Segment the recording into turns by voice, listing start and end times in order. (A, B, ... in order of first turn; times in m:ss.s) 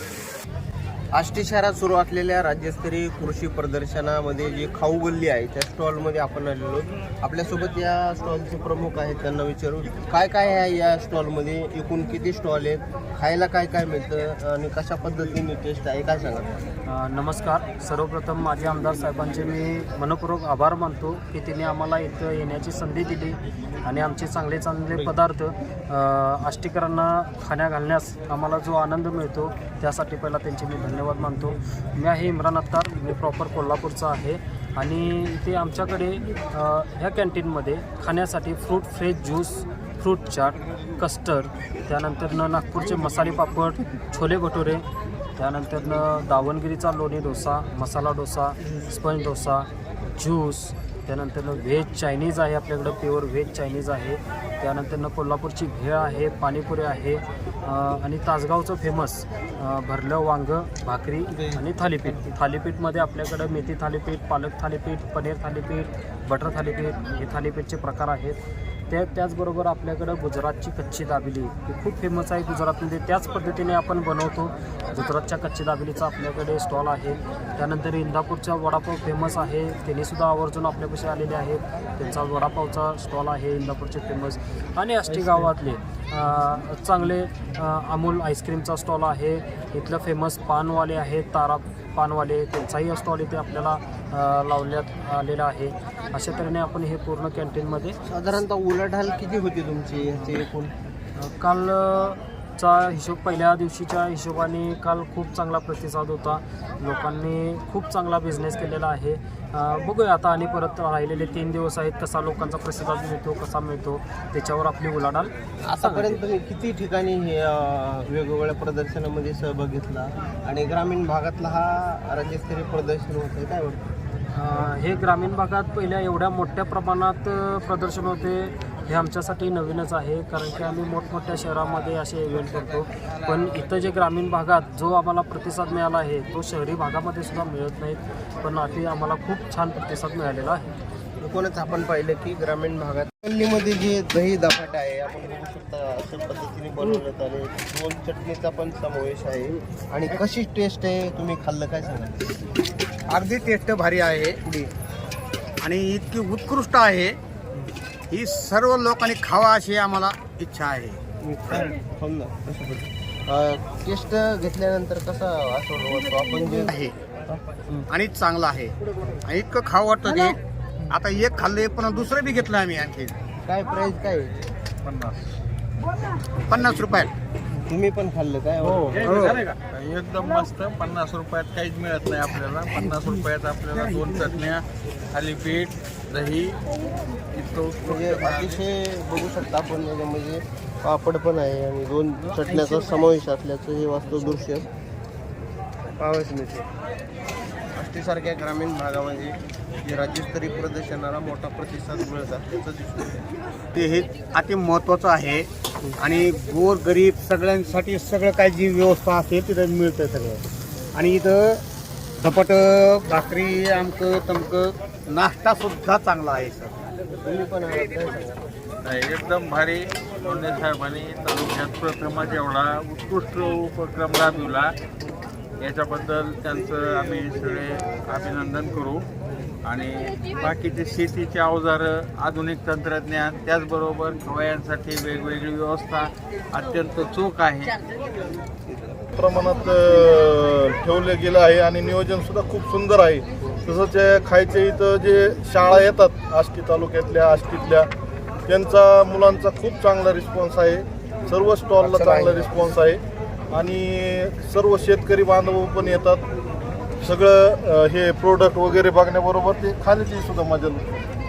0:01.1-0:16.5 A
0:16.9-0:44.8 B
0:45.4-1:08.4 B
1:01.3-1:02.2 A
1:08.9-1:38.0 B
1:38.0-1:40.7 A
1:41.2-1:56.2 B
1:55.6-2:03.9 A
2:04.3-2:20.7 B
2:21.2-2:32.3 A
2:33.1-2:34.7 C
2:35.6-2:37.2 C
2:38.1-2:41.0 C
2:41.2-2:47.9 A
2:47.9-2:50.4 C
2:50.9-2:53.1 C
2:53.4-2:54.4 A
2:54.8-2:55.2 D
2:56.5-2:57.1 C
2:56.6-2:57.0 A
2:57.7-2:59.4 A
2:58.7-3:06.6 D
3:07.3-3:08.6 D
3:07.8-3:14.7 A
3:16.0-3:16.7 A
3:17.7-3:23.2 A
3:23.7-3:30.4 C
3:30.9-3:31.6 C
3:32.2-3:36.7 C
3:37.1-3:38.4 A
3:38.8-3:44.7 D
3:45.6-3:49.0 D
3:49.6-3:57.8 D
3:59.2-4:07.9 E
4:08.5-4:16.2 E
4:11.8-4:12.5 A
4:17.0-4:20.8 E